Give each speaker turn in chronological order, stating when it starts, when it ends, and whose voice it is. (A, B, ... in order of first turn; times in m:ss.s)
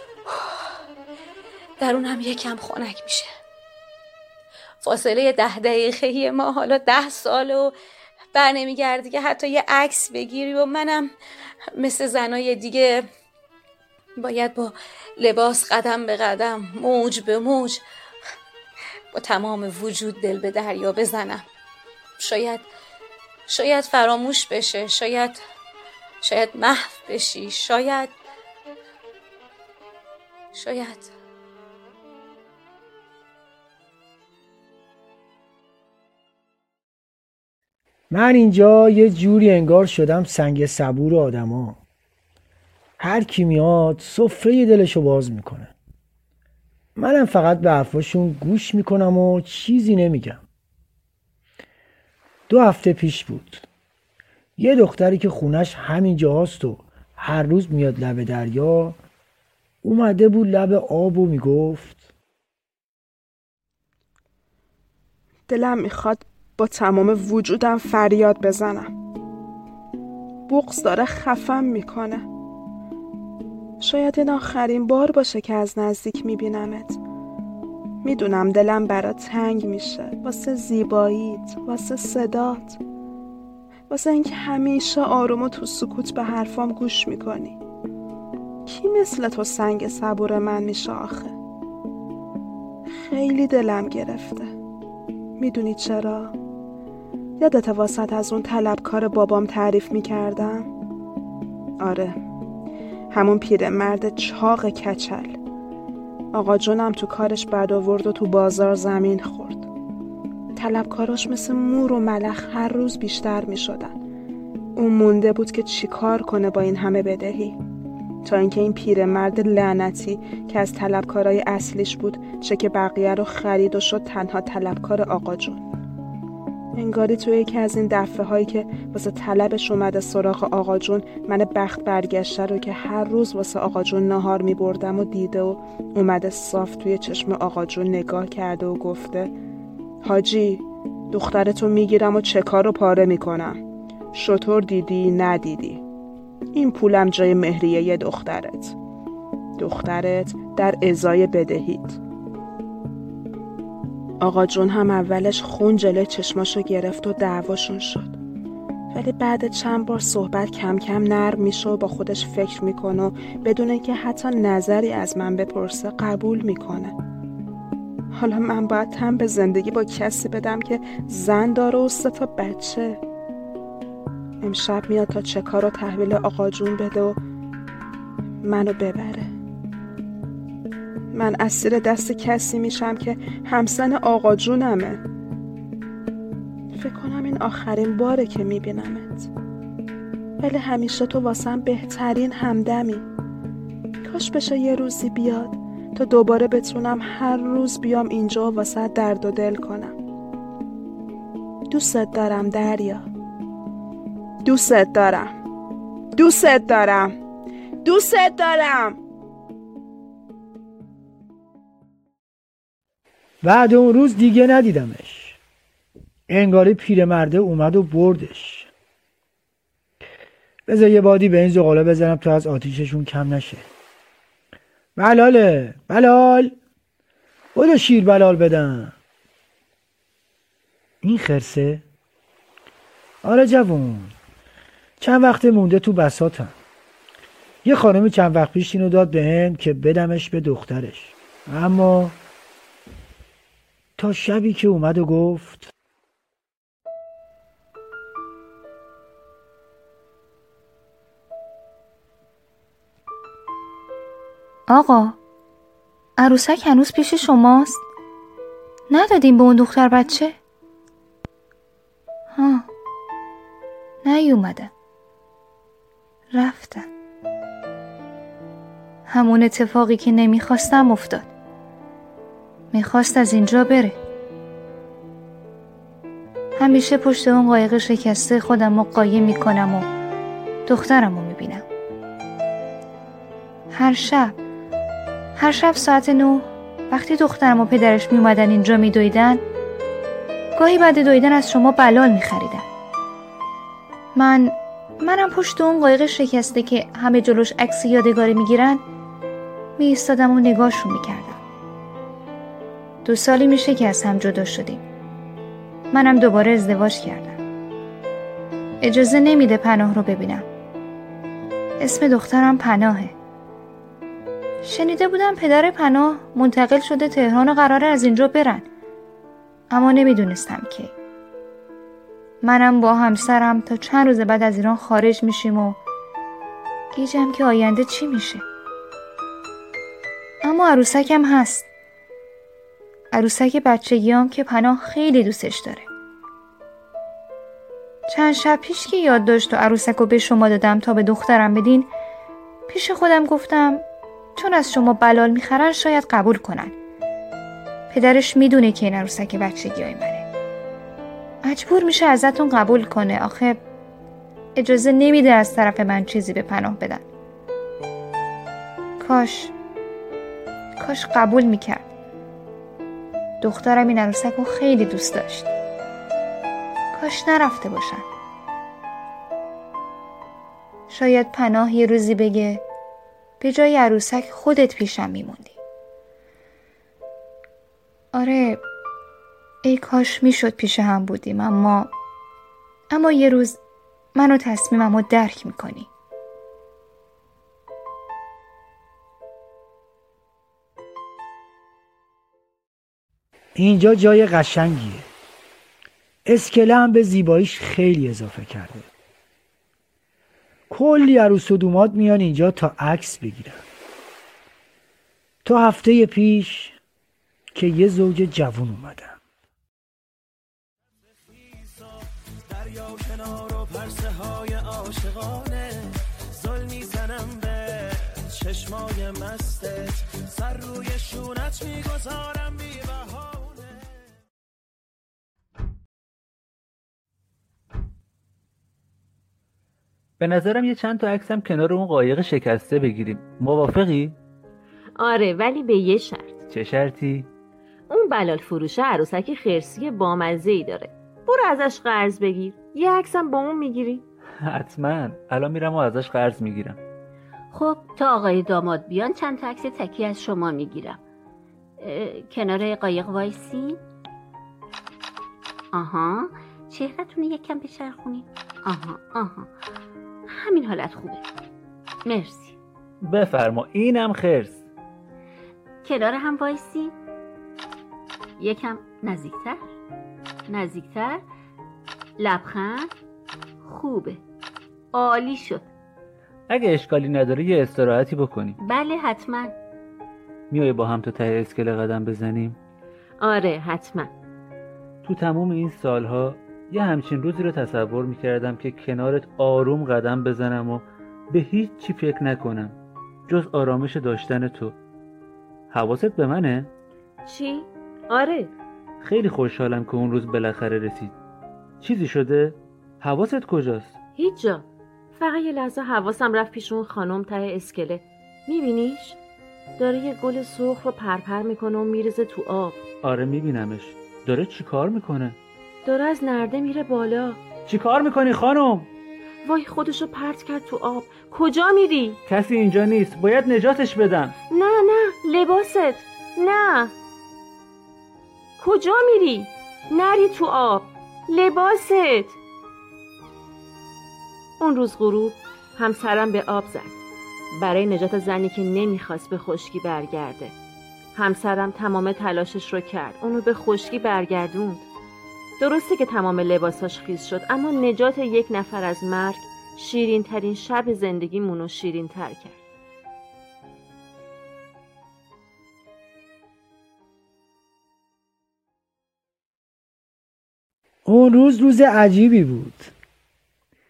0:00.3-0:00.6 A
0:01.8-0:03.3 A
0:04.8-0:07.7 A
0:08.3-0:11.1 A
0:11.8-0:13.0 A
0:14.2-0:17.8 A
0:19.1-0:21.4 A
0:22.2-0:22.7 A
0:23.5-0:25.4 A
0:26.2-0:28.1 A
0:30.5-0:31.1 A
0:38.1-0:41.8 B
0:43.0-0:45.7 B
0:47.0-0:50.4 B
0:52.5-0:53.6 B
0:54.6-0:59.0 B
0:59.8-1:02.0 B
1:05.5-1:08.9 C
1:10.5-1:12.3 C
1:13.8-1:17.0 C
1:18.0-1:22.8 C
1:23.9-1:27.6 C
1:28.6-1:31.3 C
1:32.9-1:34.5 C
1:35.4-1:36.3 C
1:37.4-1:40.7 C
1:41.8-1:42.2 C
1:43.1-1:45.4 C
1:46.3-1:49.7 C
1:50.6-1:54.0 C
1:54.8-1:57.6 C
1:58.2-2:05.7 C
2:06.8-2:19.3 C
2:20.0-2:25.8 C
2:26.5-2:28.8 C
2:29.6-2:32.0 C
2:34.2-2:38.2 C
2:38.9-2:47.0 C
2:48.1-2:53.0 C
2:54.4-2:57.2 C
2:58.4-2:59.3 C
3:01.1-3:05.0 C
3:06.8-3:09.3 C
3:10.4-3:13.0 C
3:14.0-3:20.0 C
3:21.7-3:23.1 C
3:24.4-3:25.3 C
3:26.2-3:27.2 C
3:27.8-3:29.0 C
3:33.4-3:35.4 B
3:36.3-3:38.7 B
3:40.6-3:43.7 B
3:45.0-3:46.5 B
3:47.5-3:48.9 B
3:51.0-3:51.8 B
3:53.2-3:54.1 B
3:55.0-3:56.5 B
3:57.6-4:02.2 B
4:04.0-4:05.7 B
4:14.7-4:15.2 D
4:16.2-4:17.8 D
4:18.9-4:20.4 D
4:22.3-4:22.7 D
4:24.0-4:24.7 D
4:26.3-4:26.9 D
4:29.1-4:31.3 D
4:32.7-4:34.0 D
4:36.6-4:39.9 D
4:40.6-4:41.6 D
4:43.7-4:44.4 D
4:45.4-4:49.4 D
4:50.6-4:52.6 D
4:54.1-4:58.8 D
4:59.8-5:01.4 D
5:03.0-5:04.8 D
5:05.9-5:07.4 D
5:08.8-5:10.5 D
5:11.8-5:13.1 D
5:14.6-5:18.6 D
5:19.7-5:20.9 D
5:22.4-5:25.8 D
5:26.9-5:28.4 D
5:30.4-5:31.6 D
5:33.1-5:35.9 D
5:38.1-5:41.9 D
5:42.7-5:43.8 D
5:44.4-5:46.8 D
5:47.9-5:50.3 D
5:51.4-5:53.6 D
5:54.6-5:57.0 D
5:59.0-5:59.5 D
6:00.8-6:01.8 D
6:03.4-6:05.5 D
6:06.9-6:08.0 D
6:10.9-6:12.6 D
6:13.4-6:15.6 D
6:18.1-6:18.6 D
6:19.6-6:21.9 D
6:22.9-6:23.6 D
6:24.1-6:25.9 D
6:33.5-6:35.0 B
6:36.2-6:38.9 B
6:40.7-6:43.6 B
6:45.4-6:46.8 B
6:47.5-6:49.2 B
6:51.1-6:55.9 E
6:56.4-7:04.2 E
7:10.2-7:14.2 F
7:15.0-7:16.4 G
7:16.5-7:17.3 F
7:17.9-7:24.0 G
7:24.4-7:26.8 F
7:27.5-7:31.0 H
7:31.8-7:33.8 H
7:35.7-7:39.5 H
7:40.3-7:41.2 H
7:42.0-7:42.5 H
7:43.0-7:44.7 F
7:45.8-7:46.9 H
7:48.4-7:49.6 H
7:50.5-7:51.2 H
7:52.2-7:52.9 H
7:53.6-7:54.2 H
7:54.9-7:55.6 H
7:56.5-7:58.6 F
7:58.6-7:59.5 H
8:00.5-8:02.6 F
8:03.2-8:04.1 G
8:05.0-8:12.8 F
8:13.3-8:14.8 F
8:15.7-8:16.7 F
8:17.2-8:18.5 G
8:19.0-8:21.2 F
8:21.8-8:24.0 F
8:24.1-8:29.2 G
8:29.8-8:32.8 G
8:33.0-8:35.4 F
8:35.8-8:37.4 G
8:37.6-8:38.9 F
8:39.4-8:42.2 G
8:42.2-8:44.4 F
8:44.5-8:46.9 G
8:48.6-8:52.4 G
8:54.6-8:57.0 G
8:57.5-9:00.5 G
9:01.1-9:04.9 G
9:05.6-9:12.6 G
9:21.0-9:22.9 B